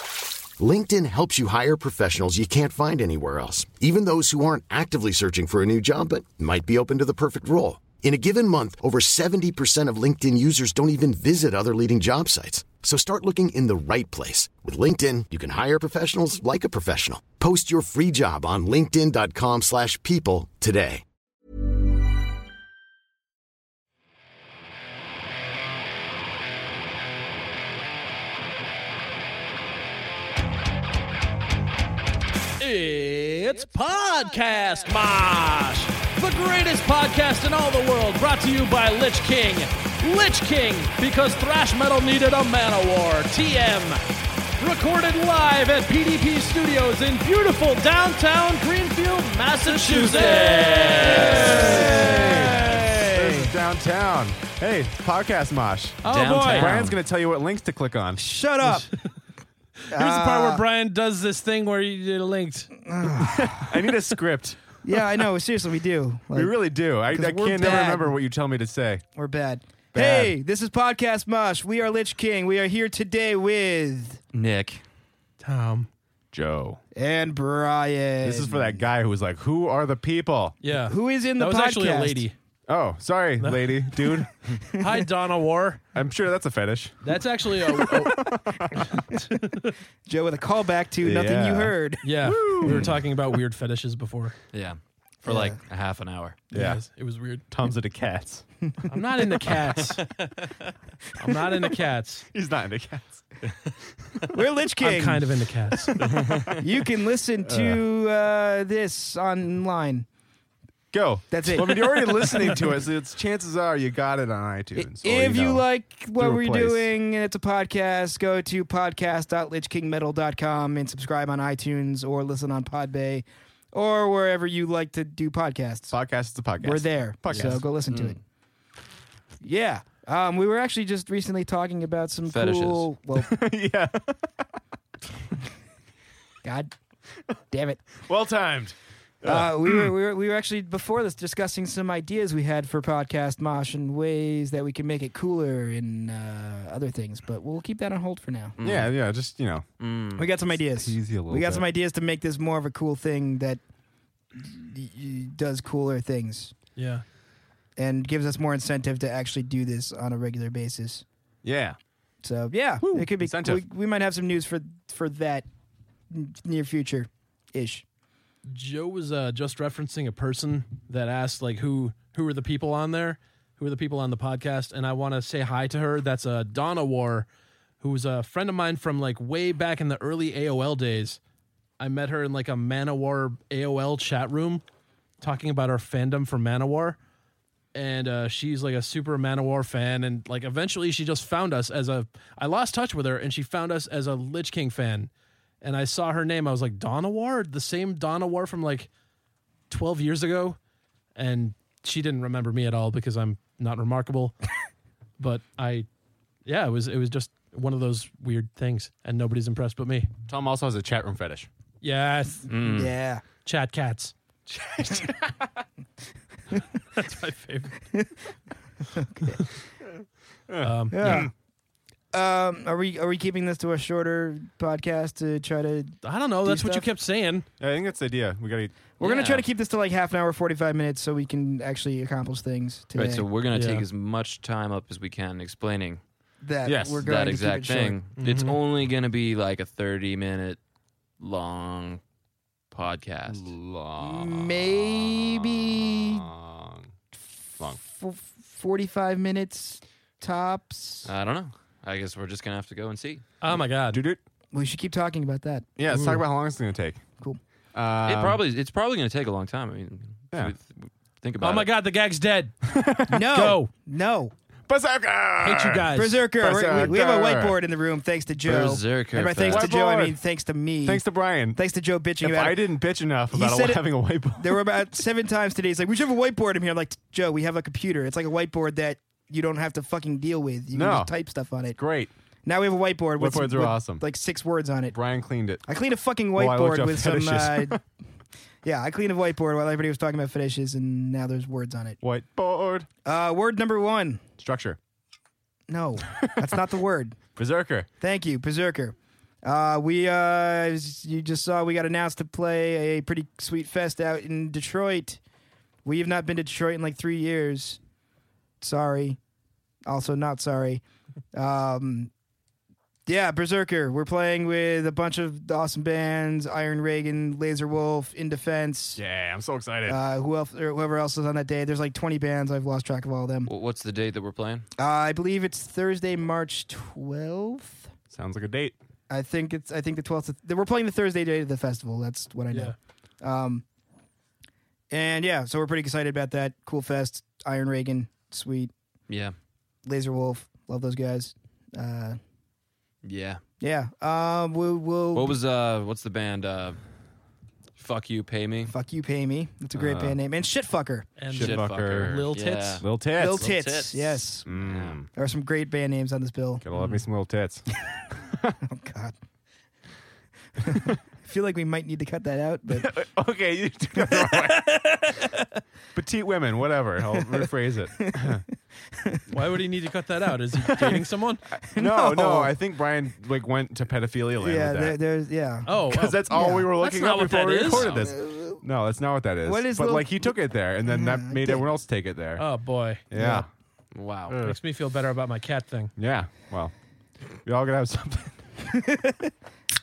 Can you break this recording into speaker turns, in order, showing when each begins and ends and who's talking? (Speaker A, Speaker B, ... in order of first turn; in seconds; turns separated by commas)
Speaker A: 0.6-21.0, Speaker B: 32.6-44.0, Speaker B: 44.6-52.9, Speaker C: 49.8-53.5, Speaker D: 50.2-51.8, Speaker E: 51.1-58.2, Speaker B: 56.0-56.8, Speaker D: 56.0-57.0, Speaker C: 58.2-58.9, Speaker B: 58.6-59.1, Speaker B: 59.9-62.7, Speaker C: 59.9-60.6, Speaker C: 62.8-63.9, Speaker E: 63.1-64.8, Speaker C: 64.8-66.5, Speaker E: 66.3-69.0, Speaker C: 67.1-68.2, Speaker C: 69.2-74.2, Speaker E: 69.9-70.4, Speaker D: 74.3-74.8, Speaker B: 75.4-75.9, Speaker E: 76.3-76.8, Speaker C: 77.0-78.9, Speaker E: 78.2-80.6, Speaker B: 80.6-82.4, Speaker C: 80.9-82.2, Speaker E: 82.7-84.4, Speaker B: 83.4-85.8, Speaker C: 84.7-85.0, Speaker E: 86.0-89.0, Speaker B: 87.0-89.8, Speaker C: 89.1-89.5, Speaker C: 90.1-92.9, Speaker E: 91.0-93.0, Speaker B: 92.0-94.4, Speaker D: 94.5-96.4, Speaker C: 95.3-95.6, Speaker E: 96.5-96.8, Speaker B: 96.5-97.4, Speaker E: 97.5-98.5, Speaker C: 98.7-99.0, Speaker B: 98.9-100.3, Speaker B: 101.2-102.3, Speaker E: 102.3-103.2, Speaker C: 104.3-105.3, Speaker B: 104.8-106.1, Speaker E: 106.0-106.6, Speaker D: 106.2-106.5, Speaker C: 106.6-110.1, Speaker E: 107.5-107.8, Speaker E: 110.9-116.9, Speaker C: 111.3-112.7, Speaker C: 114.8-125.9, Speaker E: 125.9-127.7, Speaker C: 126.6-128.2, Speaker D: 127.3-128.2, Speaker C: 129.4-133.3, Speaker D: 132.3-132.9, Speaker E: 133.2-134.3, Speaker C: 136.4-136.7, Speaker C: 137.5-137.9, Speaker E: 138.0-139.9, Speaker C: 139.2-148.6, Speaker D: 148.6-148.9, Speaker E: 148.6-149.7, Speaker D: 149.8-150.3, Speaker C: 150.2-153.6, Speaker E: 150.6-151.7, Speaker C: 154.3-156.5, Speaker B: 156.8-157.0, Speaker C: 157.8-161.0, Speaker E: 161.4-161.8, Speaker C: 162.2-165.5, Speaker E: 162.8-163.6, Speaker C: 166.1-167.8, Speaker B: 168.5-177.3, Speaker B: 177.8-181.2, Speaker B: 181.8-184.6, Speaker B: 185.2-187.0, Speaker B: 187.7-195.1, Speaker B: 195.6-198.9, Speaker B: 199.7-200.6, Speaker B: 201.2-204.3, Speaker B: 205.2-205.9, Speaker B: 206.4-210.1, Speaker E: 210.3-211.5, Speaker B: 211.8-212.5, Speaker D: 212.5-212.9, Speaker C: 212.6-213.2, Speaker B: 213.4-214.1, Speaker E: 214.5-215.5, Speaker B: 216.9-217.8, Speaker C: 219.0-219.4, Speaker E: 220.5-221.3, Speaker B: 220.6-221.3, Speaker C: 220.9-221.3, Speaker C: 222.1-226.9, Speaker B: 226.0-227.5, Speaker E: 227.6-228.7, Speaker C: 229.0-233.2, Speaker D: 229.0-229.5, Speaker D: 232.9-236.0, Speaker B: 233.5-233.8, Speaker C: 236.4-238.0, Speaker E: 236.7-237.1, Speaker D: 237.0-240.6, Speaker B: 238.2-238.6, Speaker D: 241.2-242.0, Speaker D: 242.7-243.5, Speaker E: 243.3-246.9, Speaker C: 244.0-246.3, Speaker C: 247.8-251.1, Speaker D: 251.1-253.2, Speaker B: 253.4-254.0, Speaker E: 253.9-254.2, Speaker C: 254.5-255.7, Speaker E: 255.8-257.0, Speaker B: 255.9-256.2, Speaker E: 257.7-258.4, Speaker D: 258.1-261.7, Speaker B: 261.4-262.5, Speaker E: 262.6-263.4, Speaker C: 263.1-264.3, Speaker B: 263.3-263.7, Speaker E: 264.7-267.6, Speaker B: 265.4-266.2, Speaker C: 265.9-271.0, Speaker D: 268.4-269.7, Speaker E: 269.4-270.2, Speaker E: 270.8-271.6, Speaker C: 271.6-272.6, Speaker E: 272.2-274.7, Speaker C: 273.3-273.8, Speaker C: 274.4-281.8, Speaker E: 280.7-281.1, Speaker E: 281.7-282.1, Speaker C: 282.4-285.0, Speaker E: 283.2-284.0, Speaker E: 284.9-285.6, Speaker C: 285.7-287.8, Speaker E: 286.3-287.8, Speaker C: 288.6-292.0, Speaker E: 292.0-292.9, Speaker C: 293.1-294.2, Speaker E: 294.4-294.8, Speaker C: 295.7-297.2, Speaker E: 297.4-297.9, Speaker C: 298.0-305.2, Speaker C: 305.8-307.8, Speaker C: 308.6-309.2, Speaker C: 309.9-310.8, Speaker C: 311.3-312.1, Speaker C: 313.1-319.0, Speaker E: 319.0-320.0, Speaker C: 319.9-323.5, Speaker D: 323.5-324.7, Speaker C: 324.8-327.9, Speaker E: 328.1-328.8, Speaker C: 329.1-333.6, Speaker B: 332.5-332.8, Speaker C: 334.9-338.7, Speaker D: 339.1-339.3, Speaker C: 339.9-342.2, Speaker D: 343.0-343.4, Speaker C: 343.6-345.4, Speaker D: 345.1-346.8, Speaker D: 347.8-348.7, Speaker C: 348.7-351.1, Speaker E: 349.8-350.2, Speaker B: 351.2-352.8, Speaker E: 351.3-352.3, Speaker D: 351.4-355.0, Speaker E: 352.8-353.5, Speaker C: 353.2-354.5, Speaker E: 354.5-355.1, Speaker C: 355.1-356.6, Speaker E: 356.6-358.6, Speaker C: 358.6-359.1, Speaker C: 360.6-362.9, Speaker E: 362.7-365.1, Speaker C: 364.0-364.5, Speaker E: 365.9-368.4, Speaker C: 367.1-368.4, Speaker C: 369.0-369.3, Speaker B: 369.3-371.4, Speaker E: 371.7-375.0, Speaker C: 371.7-372.5, Speaker C: 374.4-375.7, Speaker B: 375.7-377.9, Speaker E: 375.7-382.5, Speaker C: 376.3-376.7, Speaker C: 377.8-378.6, Speaker C: 379.4-381.7, Speaker B: 382.4-383.0, Speaker E: 383.1-383.5, Speaker C: 383.1-383.5, Speaker D: 383.9-384.4, Speaker E: 384.3-384.6, Speaker B: 384.4-385.9, Speaker E: 386.0-386.7, Speaker E: 387.4-388.5, Speaker C: 388.7-389.3